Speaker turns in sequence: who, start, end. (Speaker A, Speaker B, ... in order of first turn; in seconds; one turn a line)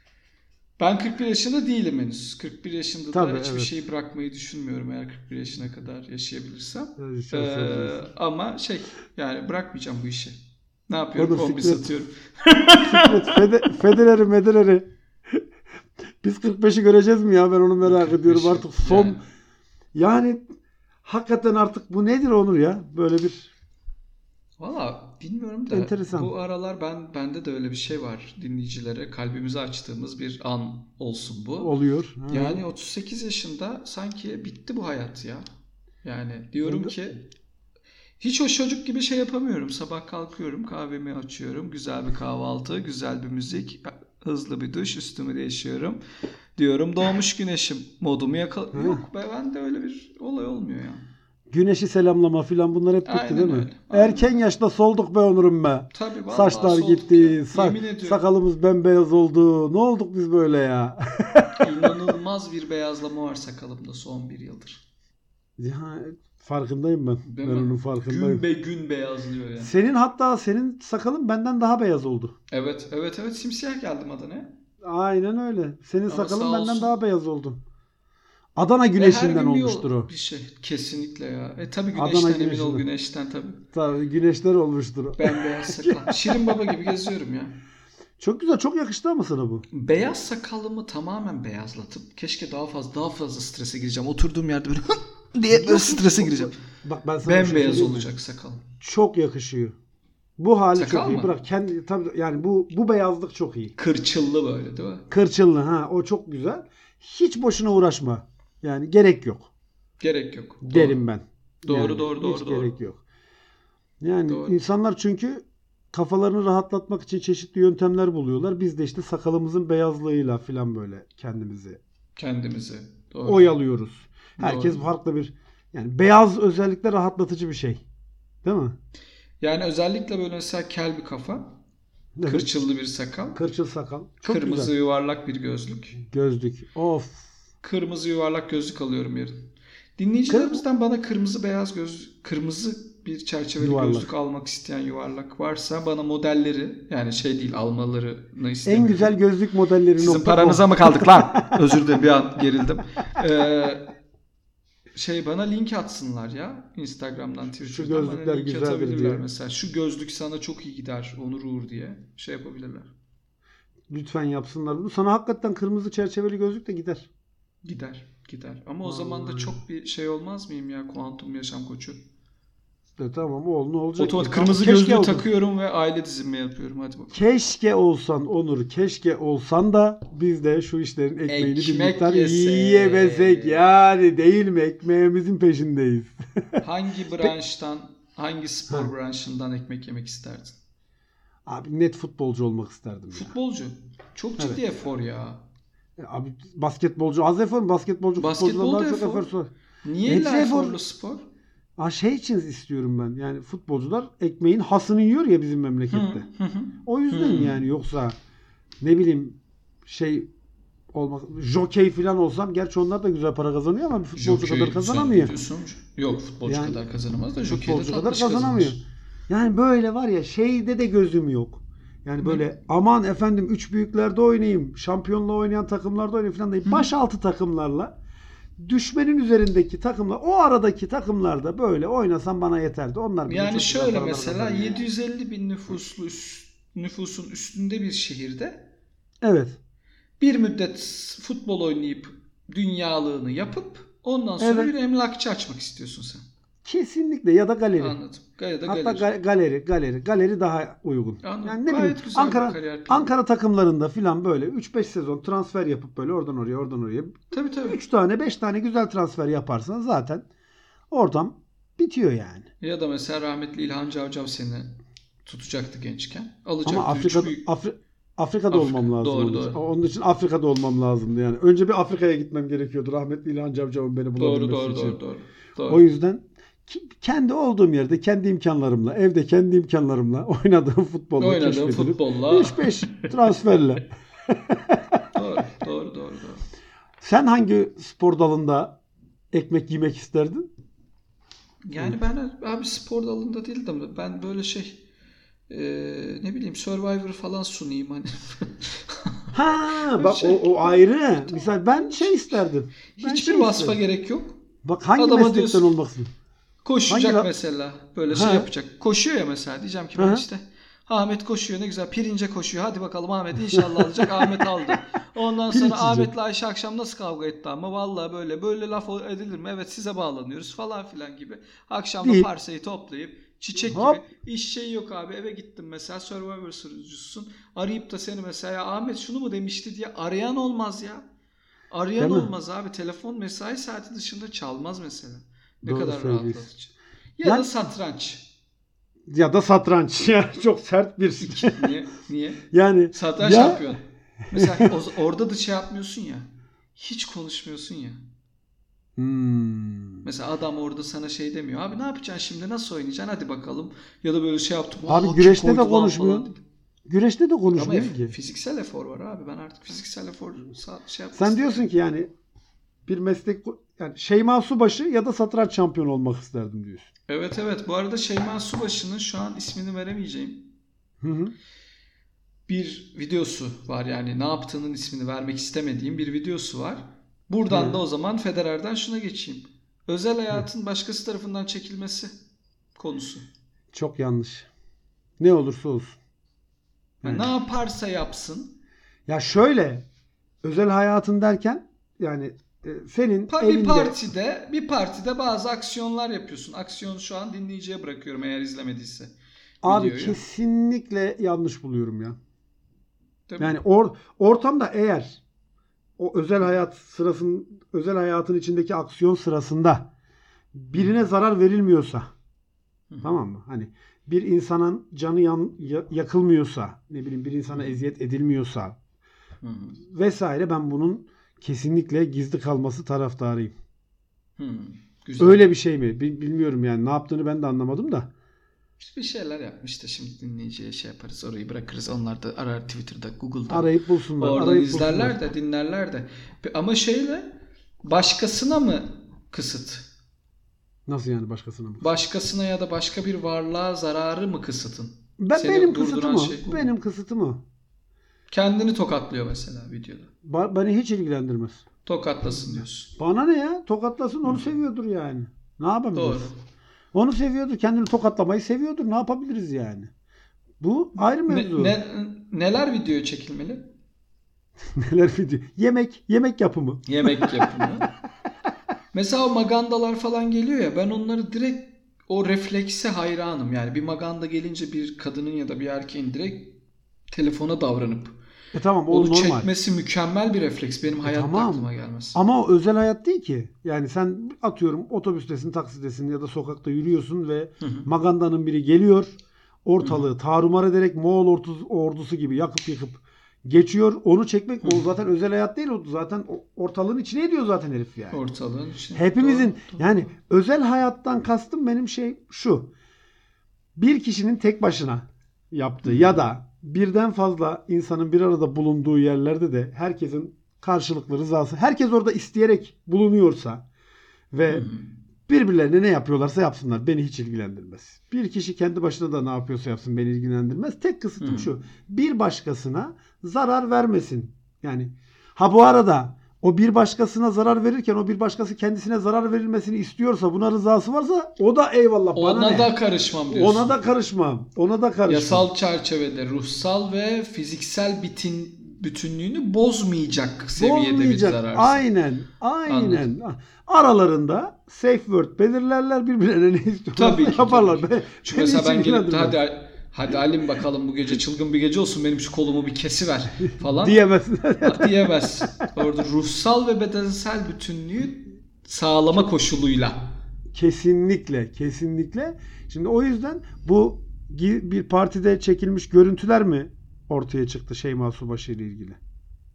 Speaker A: 0.8-13.5
Speaker B: 3.1-3.7
Speaker B: 7.0-8.1
Speaker B: 11.2-11.9
Speaker B: 12.8-15.4
Speaker B: 16.2-19.2
Speaker A: 17.8-19.2
Speaker B: 19.9-20.5
Speaker B: 21.1-23.5
Speaker A: 24.6-31.7
Speaker B: 25.7-26.3
Speaker B: 31.6-32.6
Speaker A: 32.3-35.5
Speaker A: 36.0-37.2
Speaker B: 36.6-37.0
Speaker A: 38.2-46.0
Speaker A: 46.6-51.0
Speaker B: 48.7-49.0
Speaker B: 51.5-61.9
Speaker A: 53.0-54.4
Speaker A: 55.9-58.2
Speaker A: 61.6-64.8
Speaker B: 65.6-68.4
Speaker A: 67.3-69.8
Speaker B: 69.6-72.3
Speaker A: 72.5-74.5
Speaker B: 74.8-77.6
Speaker A: 76.1-76.9
Speaker B: 78.6-80.1
Speaker A: 79.0-83.6
Speaker B: 82.0-82.9
Speaker B: 83.7-86.4
Speaker A: 85.2-87.6
Speaker B: 88.2-89.7
Speaker A: 89.7-96.6
Speaker B: 95.5-98.1
Speaker A: 97.2-98.6
Speaker B: 98.8-99.8
Speaker B: 100.4-103.7
Speaker A: 100.8-101.3
Speaker A: 103.8-105.1
Speaker B: 105.1-109.5
Speaker A: 110.0-111.0
Speaker B: 110.6-113.0
Speaker A: 111.7-112.8
Speaker B: 114.0-121.8
Speaker A: 114.3-114.6
Speaker A: 122.2-123.5
Speaker B: 123.3-127.8
Speaker A: 124.4-124.9
Speaker B: 128.4-128.8
Speaker A: 129.4-131.6
Speaker B: 132.2-132.5
Speaker A: 132.2-133.4
Speaker B: 133.3-134.7
Speaker A: 134.2-136.0
Speaker B: 136.0-137.3
Speaker A: 137.6-149.2
Speaker B: 140.3-140.6
Speaker B: 143.6-144.1
Speaker B: 148.7-151.7
Speaker A: 150.0-153.9
Speaker A: 154.9-162.9
Speaker B: 157.6-159.2
Speaker B: 163.9-167.1
Speaker A: 167.7-172.1
Speaker B: 168.8-169.6
Speaker B: 173.0-175.2
Speaker A: 174.0-177.2
Speaker B: 177.1-186.6
Speaker A: 181.3-183.6
Speaker A: 186.6-190.6
Speaker B: 191.5-193.4
Speaker A: 193.1-195.4
Speaker B: 196.0-199.5
Speaker A: 198.2-199.3
Speaker A: 199.8-201.3
Speaker B: 200.1-200.8
Speaker B: 201.8-206.3
Speaker A: 205.9-207.7
Speaker B: 206.8-208.2
Speaker B: 208.8-210.3
Speaker B: 210.9-215.3
Speaker A: 214.2-218.8
Speaker B: 216.4-216.8
Speaker B: 217.5-227.9
Speaker B: 228.6-234.8
Speaker A: 233.3-238.7
Speaker B: 239.2-239.6
Speaker A: 240.2-246.2
Speaker B: 244.4-244.7
Speaker B: 246.6-248.0
Speaker A: 247.8-249.1
Speaker B: 248.7-260.3
Speaker A: 251.2-253.1
Speaker A: 257.3-257.8
Speaker B: 260.9-262.5
Speaker A: 262.6-267.4
Speaker B: 266.6-275.0
Speaker A: 268.5-269.6
Speaker A: 274.2-275.9
Speaker B: 275.7-285.0
Speaker A: 281.2-283.1
Speaker A: 285.1-286.4
Speaker B: 287.0-288.8
Speaker B: 289.3-290.5
Speaker A: 291.6-294.8
Speaker A: 295.5-302.3
Speaker B: 299.3-303.8
Speaker A: 302.9-304.4
Speaker B: 304.6-306.1
Speaker A: 305.0-305.7
Speaker A: 306.6-331.0
Speaker B: 306.9-307.3
Speaker B: 308.1-308.5
Speaker B: 310.0-310.2
Speaker B: 313.5-314.6
Speaker B: 315.5-316.1
Speaker B: 322.0-322.3
Speaker B: 323.6-324.0
Speaker A: 331.7-338.3
Speaker B: 332.0-332.3
Speaker B: 335.6-336.5
Speaker B: 337.2-337.7
Speaker B: 339.1-341.7
Speaker A: 341.2-348.0
Speaker B: 342.5-343.7
Speaker B: 344.3-344.7
Speaker B: 349.0-350.1
Speaker A: 350.0-356.4
Speaker B: 354.9-356.3
Speaker B: 356.9-358.1
Speaker A: 357.6-361.6
Speaker B: 361.1-362.1
Speaker B: 362.9-366.9
Speaker A: 367.1-370.5
Speaker B: 371.0-371.4
Speaker A: 372.5-382.1
Speaker B: 377.5-377.8
Speaker A: 382.8-383.2
Speaker B: 383.7-384.5
Speaker B: 385.2-386.0
Speaker B: 387.0-387.4
Speaker A: 387.0-388.6
Speaker B: 389.1-389.9
Speaker B: 390.4-394.0
Speaker A: 393.3-400.2
Speaker B: 399.6-402.2
Speaker A: 403.3-403.6
Speaker B: 403.4-405.2
Speaker B: 406.0-409.9
Speaker B: 410.5-412.1
Speaker B: 413.0-418.8
Speaker A: 419.4-419.8
Speaker B: 419.9-423.5
Speaker A: 424.4-425.5
Speaker B: 425.2-428.1
Speaker A: 428.8-439.9
Speaker B: 433.5-435.2
Speaker B: 440.9-441.9
Speaker A: 441.8-446.7
Speaker B: 445.2-447.4
Speaker A: 448.3-450.1
Speaker B: 450.2-451.6
Speaker A: 451.9-452.9
Speaker B: 453.0-456.3
Speaker A: 455.9-456.4
Speaker B: 456.9-459.9
Speaker B: 460.6-461.8
Speaker A: 461.3-463.7
Speaker B: 464.7-467.5
Speaker A: 466.9-467.9
Speaker A: 468.9-476.6
Speaker A: 477.1-478.2
Speaker B: 478.5-479.5
Speaker A: 478.9-482.2
Speaker B: 481.0-498.2
Speaker A: 487.6-487.9
Speaker A: 489.8-490.1
Speaker A: 494.6-494.9
Speaker A: 498.1-500.1
Speaker B: 498.9-502.7
Speaker B: 503.8-513.7
Speaker A: 505.8-506.2
Speaker B: 514.3-514.7
Speaker A: 514.5-514.9
Speaker B: 515.3-532.7
Speaker A: 521.2-521.5
Speaker A: 532.1-533.8
Speaker B: 533.3-535.5
Speaker A: 535.1-541.9
Speaker B: 540.6-549.4
Speaker A: 542.7-543.1
Speaker A: 547.0-554.0
Speaker B: 553.6-555.6
Speaker A: 554.6-560.1
Speaker B: 560.5-569.0